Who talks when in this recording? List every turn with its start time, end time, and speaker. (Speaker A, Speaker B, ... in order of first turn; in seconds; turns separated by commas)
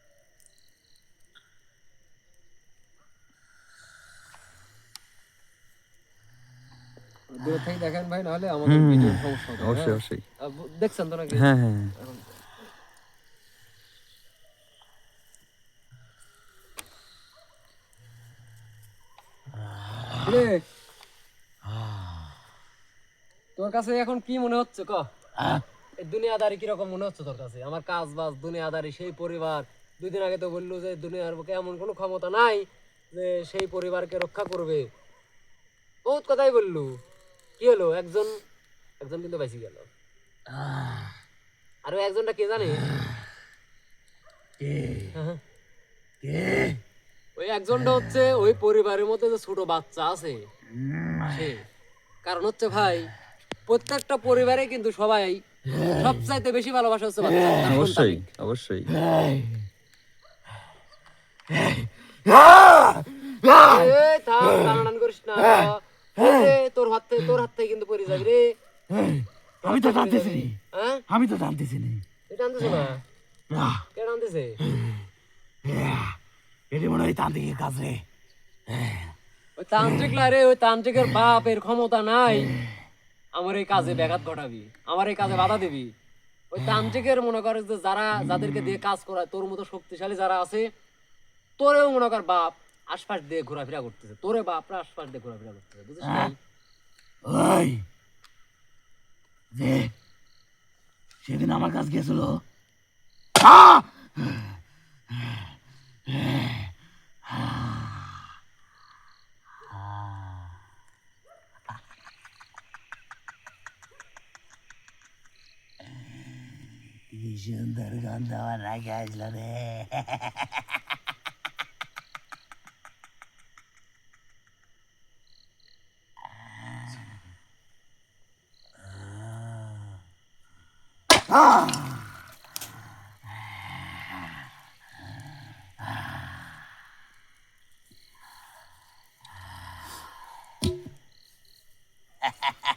Speaker A: 7.3-12.4, Speaker B: 8.7-10.2, Speaker B: 11.3-11.9, Speaker C: 20.1-20.3, Speaker A: 20.2-20.6, Speaker A: 23.6-25.1, Speaker C: 25.4-25.6, Speaker A: 26.0-34.9, Speaker A: 36.0-37.0, Speaker A: 37.6-38.4, Speaker A: 39.0-39.9, Speaker C: 40.5-41.1, Speaker A: 41.9-42.9, Speaker C: 44.6-45.1, Speaker A: 45.1-45.4, Speaker C: 46.2-46.8, Speaker A: 47.4-50.5, Speaker C: 50.7-51.5, Speaker A: 51.3-51.6, Speaker A: 52.2-53.1, Speaker A: 53.6-58.2, Speaker C: 55.7-56.1, Speaker C: 57.3-57.6, Speaker B: 57.7-58.9, Speaker C: 58.9-59.6, Speaker C: 61.5-63.9, Speaker A: 63.6-68.5, Speaker C: 64.5-64.8, Speaker C: 65.5-66.5, Speaker C: 68.9-70.5, Speaker A: 69.6-71.0, Speaker C: 71.1-72.0, Speaker A: 72.3-73.0, Speaker C: 73.5-73.9, Speaker A: 73.9-74.6, Speaker C: 74.7-75.0, Speaker C: 75.6-76.2, Speaker C: 76.7-78.0, Speaker C: 78.7-79.1, Speaker A: 79.6-82.5, Speaker A: 83.3-85.9, Speaker A: 86.5-90.7, Speaker A: 91.6-96.4, Speaker C: 96.0-96.3, Speaker C: 97.2-97.8, Speaker C: 99.5-99.9, Speaker C: 101.2-102.4, Speaker C: 103.3-104.6, Speaker C: 105.1-105.5, Speaker C: 106.0-106.7, Speaker C: 107.2-108.3, Speaker C: 109.6-110.5, Speaker C: 117.1-120.7